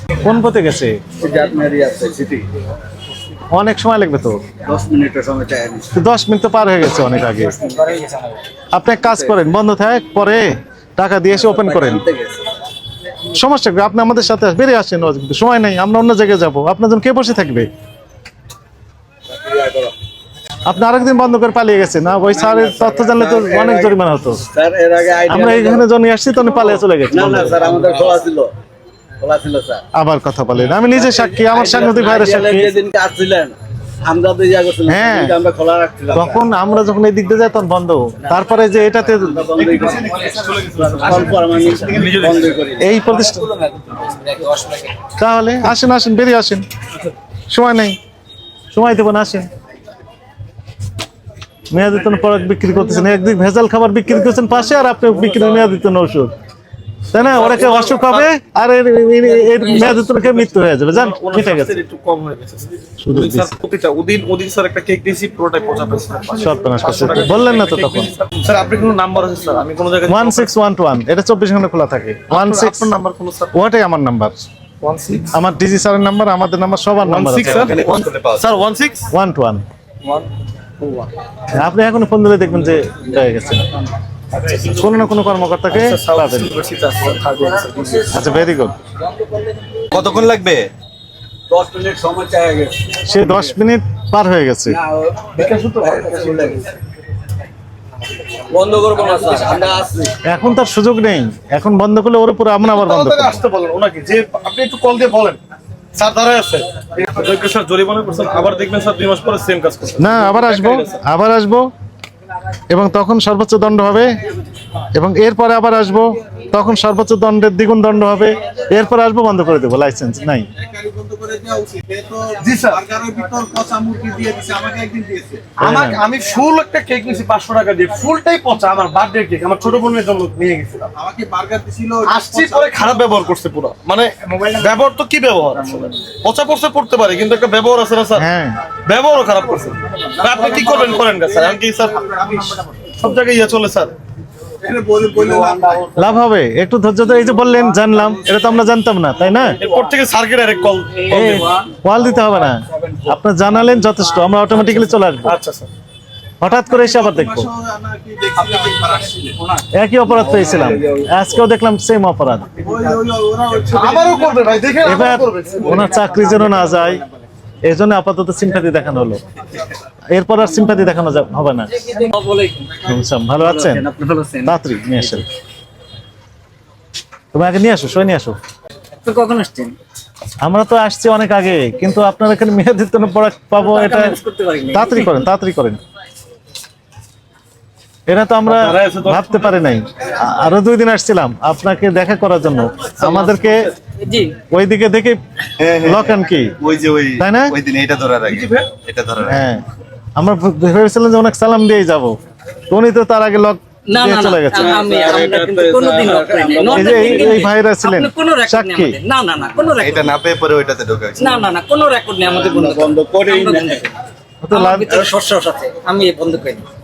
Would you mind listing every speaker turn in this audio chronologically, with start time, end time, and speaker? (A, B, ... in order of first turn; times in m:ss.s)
0:00.2-0:01.0 A
0:01.2-0:02.4 B
0:03.5-0:04.4 A
0:04.6-0:05.9 B
0:05.9-0:07.6 A
0:07.6-0:08.1 B
0:08.7-0:12.0 A
0:09.0-0:09.3 B
0:11.3-0:12.4 B
0:13.3-0:17.7 A
0:19.3-0:19.9 B
0:20.7-0:24.4 A
0:22.3-0:25.9 B
0:25.3-0:27.8 A
0:26.4-0:28.5 B
0:29.2-0:29.8 B
0:30.0-0:32.7 A
0:30.9-0:36.5 B
0:34.9-0:35.3 A
0:36.1-0:39.5 A
0:39.1-0:40.2 B
0:39.6-0:42.6 C
0:40.8-0:42.9 B
0:42.8-0:43.4 A
0:43.2-0:45.0 D
0:45.2-0:46.6 A
0:47.5-0:48.0 A
0:48.7-0:49.5 A
0:51.7-0:56.3 A
0:57.1-1:01.8 A
0:57.2-0:58.3 C
0:59.7-1:10.5 C
1:03.0-1:03.5 A
1:06.4-1:08.1 A
1:10.1-1:12.9 A
1:12.3-1:13.5 C
1:13.5-1:14.4 A
1:14.8-1:15.3 C
1:15.3-1:17.8 A
1:17.0-1:19.1 C
1:17.4-1:18.6 E
1:19.1-1:19.6 A
1:21.5-1:23.7 A
1:24.5-1:26.6 A
1:25.7-1:28.1 C
1:28.0-1:28.4 B
1:28.1-1:28.8 A
1:29.9-1:30.7 E
1:31.5-1:33.6 B
1:33.1-1:34.8 A
1:34.7-1:36.6 B
1:35.4-1:36.6 C
1:38.4-1:40.2 B
1:40.2-1:43.4 A
1:42.7-1:45.4 C
1:45.9-1:51.0 C
1:50.0-1:51.7 A
1:52.7-1:54.2 A
1:54.9-2:00.5 A
2:00.9-2:02.3 F
2:02.3-2:02.9 C
2:02.9-2:05.5 F
2:05.6-2:11.0 C
2:05.6-2:06.0 A
2:11.1-2:12.0 F
2:12.0-2:18.2 C
2:18.2-2:18.6 A
2:18.8-2:22.2 C
2:22.2-2:22.5 F
2:22.8-2:23.9 C
2:24.6-2:26.1 B
2:26.0-2:29.6 A
2:29.4-2:31.5 C
2:31.1-2:35.3 A
2:31.4-2:31.7 B
2:32.8-2:33.1 B
2:35.2-2:35.7 C
2:36.4-2:37.5 A
2:36.9-2:37.3 C
2:37.5-2:38.2 F
2:38.4-2:39.1 B
2:39.8-2:42.5 A
2:40.1-2:41.4 B
2:42.6-2:44.4 B
2:43.7-2:45.7 C
2:44.8-2:47.0 A
2:47.7-2:49.2 A
2:50.1-2:51.9 A
2:51.8-2:52.8 D
2:52.8-2:53.8 A
2:53.4-2:55.2 D
2:54.4-2:55.2 A
2:57.3-2:58.4 A
2:59.0-2:59.8 D
3:00.4-3:04.2 A
3:03.5-3:05.2 D
3:04.7-3:05.8 A
3:08.1-3:13.7 A
3:08.5-3:09.5 C
3:13.0-3:14.3 D
3:14.5-3:15.2 A
3:15.6-3:19.4 E
3:15.8-3:16.5 A
3:17.2-3:17.6 A
3:18.3-3:18.7 C
3:19.2-3:19.6 A
3:20.2-3:22.2 A
3:22.7-3:24.9 A
3:23.9-3:30.2 D
3:24.5-3:27.4 B
3:26.7-3:29.0 A
3:29.8-3:31.5 E
3:31.2-3:33.9 D
3:32.2-3:33.9 B
3:34.4-3:35.1 A
3:34.5-3:36.7 D